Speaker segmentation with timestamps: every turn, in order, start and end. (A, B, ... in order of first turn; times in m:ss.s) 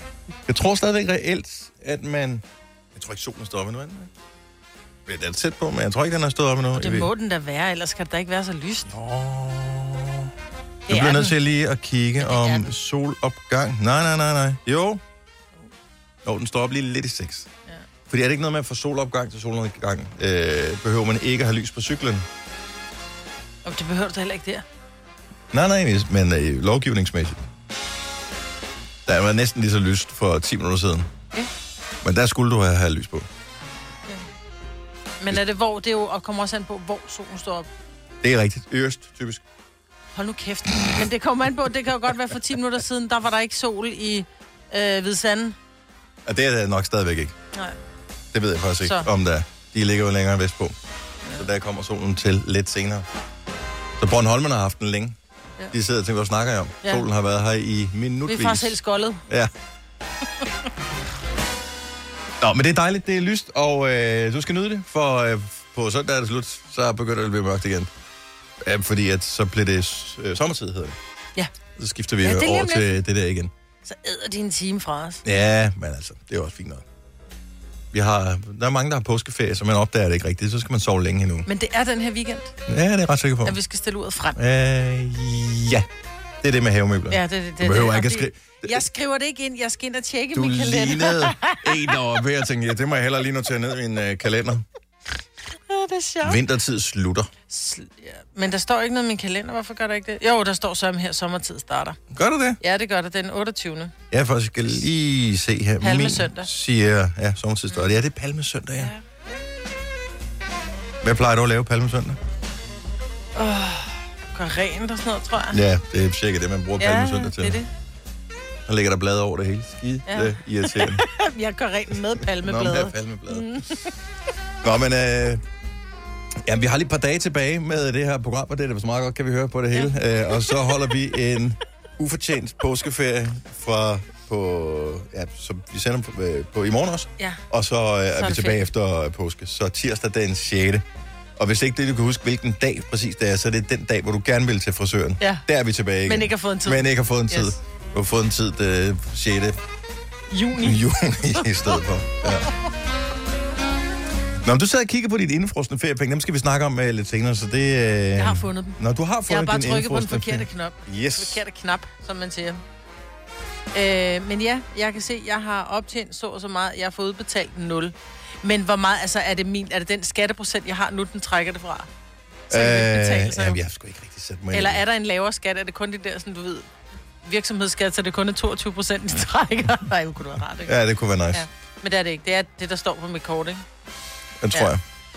0:00.5-0:02.4 A
0:02.9-0:04.1 A
0:05.1-0:07.1 A
0:06.7-0:08.9 B
0:08.9-0:10.3 A
0:10.9-0:11.4 B
0:10.9-0:15.0 A
0:12.2-0:12.7 B
0:16.2-0:17.5 A
0:18.1-0:22.3 A
0:23.6-0:24.6 B
0:25.5-0:27.4 A
0:29.0-0:31.1 A
0:32.0-0:33.3 A
0:35.2-0:37.7 B
0:38.2-0:39.4 A
0:40.2-0:45.6 B
0:46.2-0:47.3 A
0:48.3-0:50.8 A
0:48.8-0:49.1 B
0:51.3-0:53.1 A
0:54.0-0:55.2 A
0:55.7-0:59.5 A
0:58.2-0:59.2 B
1:02.4-1:07.9 A
1:08.6-1:11.0 A
1:11.8-1:13.5 A
1:12.2-1:13.0 B
1:13.8-1:15.2 B
1:15.2-1:16.8 A
1:17.9-1:21.5 A
1:21.5-1:22.6 B
1:22.7-1:23.6 A
1:23.4-1:24.4 B
1:24.4-1:25.9 A
1:26.4-1:28.8 A
1:27.1-1:31.9 B
1:30.3-1:34.7 A
1:35.7-1:36.4 B
1:36.2-1:37.3 A
1:37.5-1:42.0 B
1:42.1-1:42.6 A
1:42.6-1:43.9 B
1:44.1-1:48.9 A
1:45.8-1:46.5 B
1:48.8-1:49.2 B
1:51.0-1:52.2 A
1:53.3-1:55.6 B
1:55.5-1:57.6 A
1:56.8-1:57.7 B
1:58.7-2:01.1 A
2:00.1-2:03.9 B
2:02.2-2:03.6 A
2:04.6-2:05.4 A
2:06.4-2:20.8 A
2:09.7-2:10.6 B
2:18.1-2:18.6 B
2:21.4-2:29.6 A
2:26.0-2:27.6 B
2:30.3-2:31.8 B
2:30.6-2:32.5 A
2:34.4-2:41.4 A
2:38.2-2:42.6 B
2:43.7-2:51.9 B
2:52.5-2:53.6 B
2:52.5-2:54.8 A
2:54.5-2:56.7 B
2:57.2-3:00.8 B
3:00.6-3:01.4 A
3:01.3-3:03.6 B
3:04.4-3:04.8 A